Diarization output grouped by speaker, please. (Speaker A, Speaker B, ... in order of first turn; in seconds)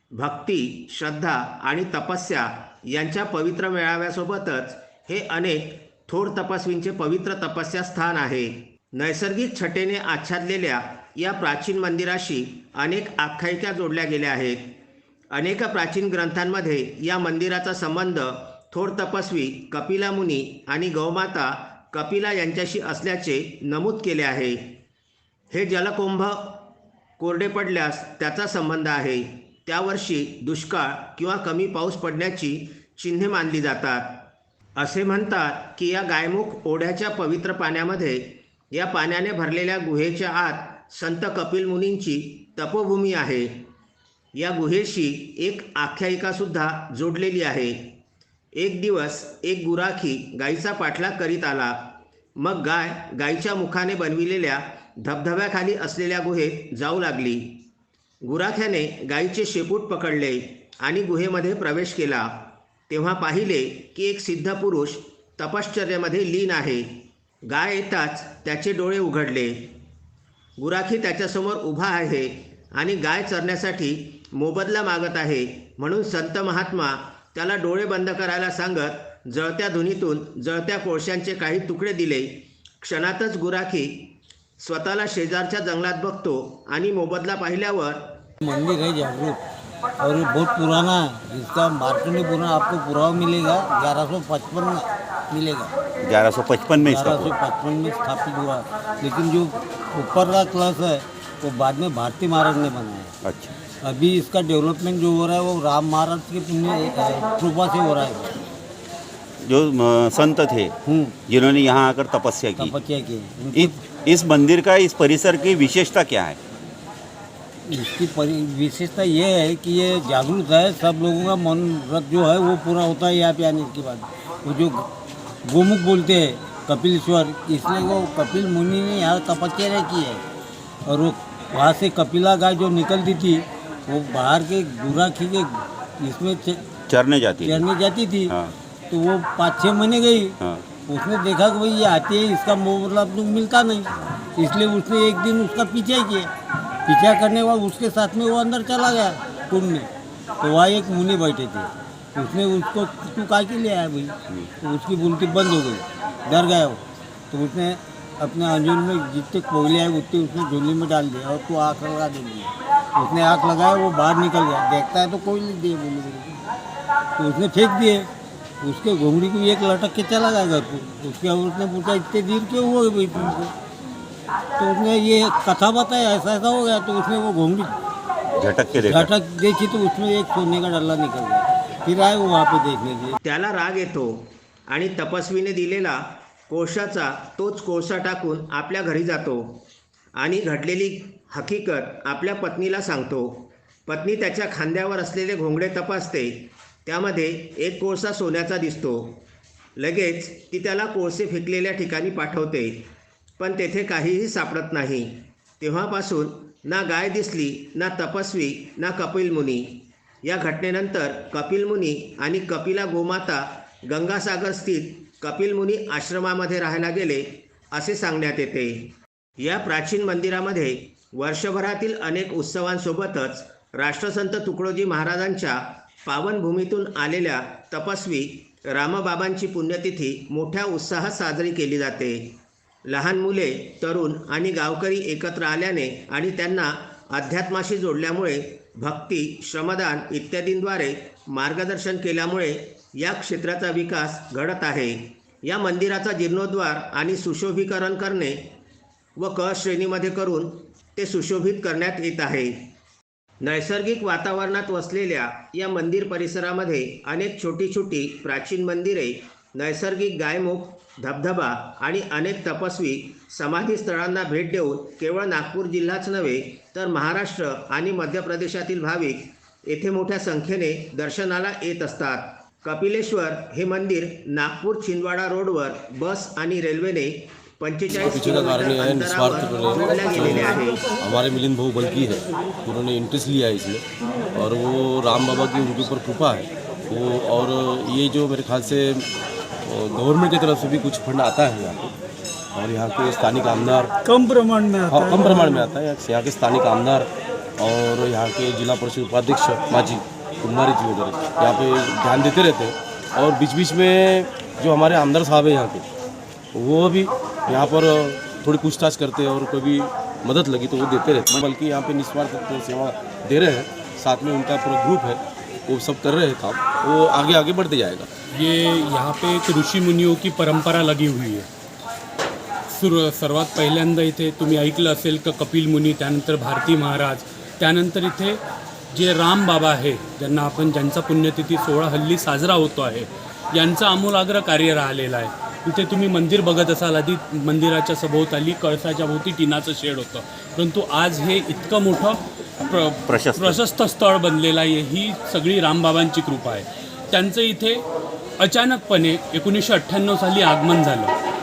Speaker A: 0.1-14.7, 15.3-24.7, 25.5-26.6, 27.2-34.2, 34.8-43.6, 44.4-47.8, 48.5-57.6, 58.2-66.9, 67.5-69.7, 70.6-88.2, 183.2-189.6, 190.2-199.2, 199.8-202.9, 203.4-248.4, 249.2-252.6, 253.4-280.8
Speaker B: 88.4-89.4, 90.0-95.7, 96.8-103.1, 103.8-108.4, 110.8-111.2, 112.6-113.8, 117.7-124.9, 125.4-130.2, 130.9-136.6, 137.4-138.3, 138.9-146.3, 146.8-149.9, 150.4-166.4, 167.2-168.1, 168.6-173.5, 174.6-177.8, 178.7-183.2
Speaker C: 96.0-97.3, 103.2-103.5, 109.4-110.7, 111.3-112.7, 113.5-116.4, 136.9-137.6, 178.4-179.1, 343.1-343.6
Speaker D: 278.0-289.1, 289.6-291.9, 292.5-293.9, 294.8-305.9, 306.5-318.1
Speaker E: 294.1-295.1, 318.3-321.5, 322.7-328.4, 328.9-347.8, 348.4-351.1